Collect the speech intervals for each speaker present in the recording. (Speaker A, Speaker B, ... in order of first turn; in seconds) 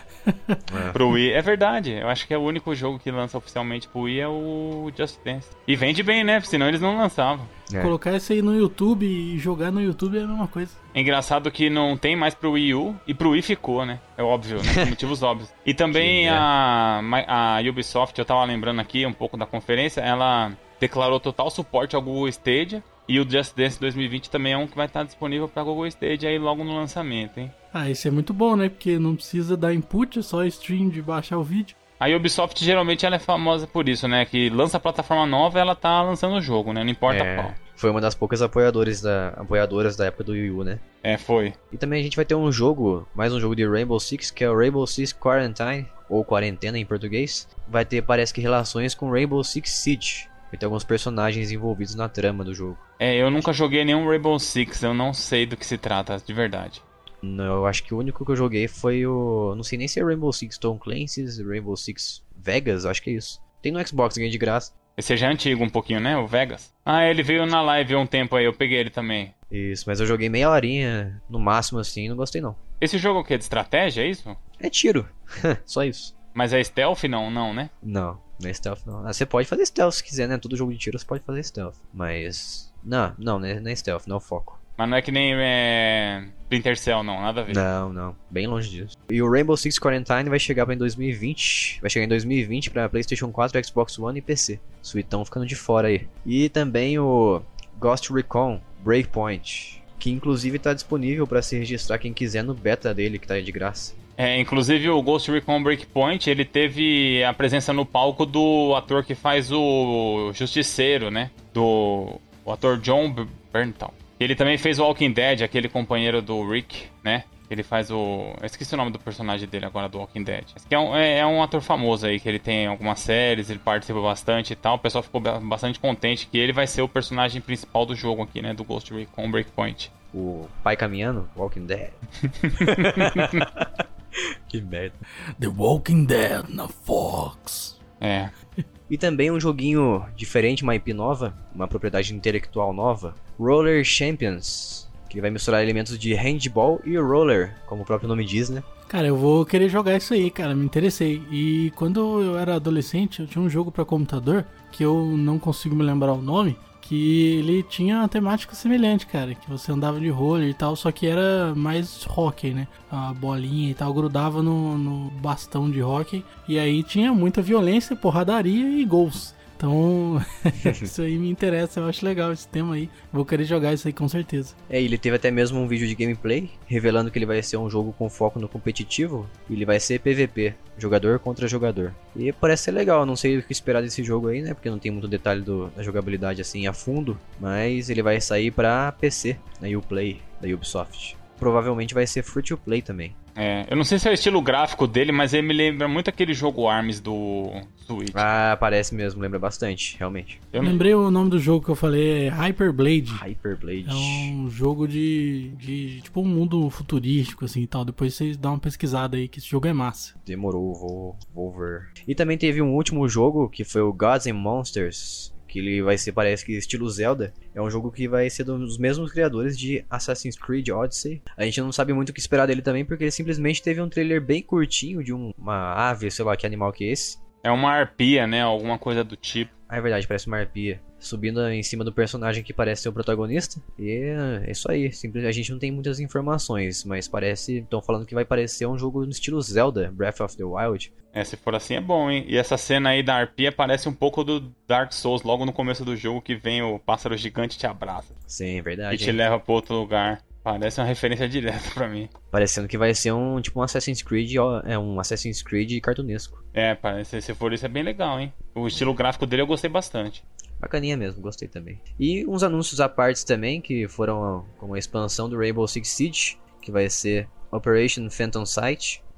Speaker A: 0.2-0.6, 7.8-10.8, 27.7-31.7, 135.4-137.8, 148.9-174.5, 200.6-203.2, 203.8-210.1
Speaker B: 0.7-1.0, 7.7-7.9, 15.9-16.5, 37.1-40.8, 41.7-52.8, 57.2-64.7, 69.5-72.6, 74.6-76.1, 77.8-84.6, 87.5-103.9, 130.1-132.0, 132.6-135.0, 138.9-148.7, 174.7-193.1, 198.1-200.4, 203.1-204.3, 210.2-227.2, 229.7-240.9, 248.3-249.2, 252.3-256.4, 260.6-269.0
Speaker C: 0.9-7.5, 10.9-27.5, 32.0-37.5, 41.0-41.5, 53.0-56.8, 65.0-69.3, 72.8-74.4, 76.3-77.7, 84.8-87.7, 104.2-129.9, 132.2-133.4, 138.0-138.3, 193.3-198.2, 200.5-200.8, 227.4-229.5, 241.1-248.1, 248.9-252.1, 256.5-260.2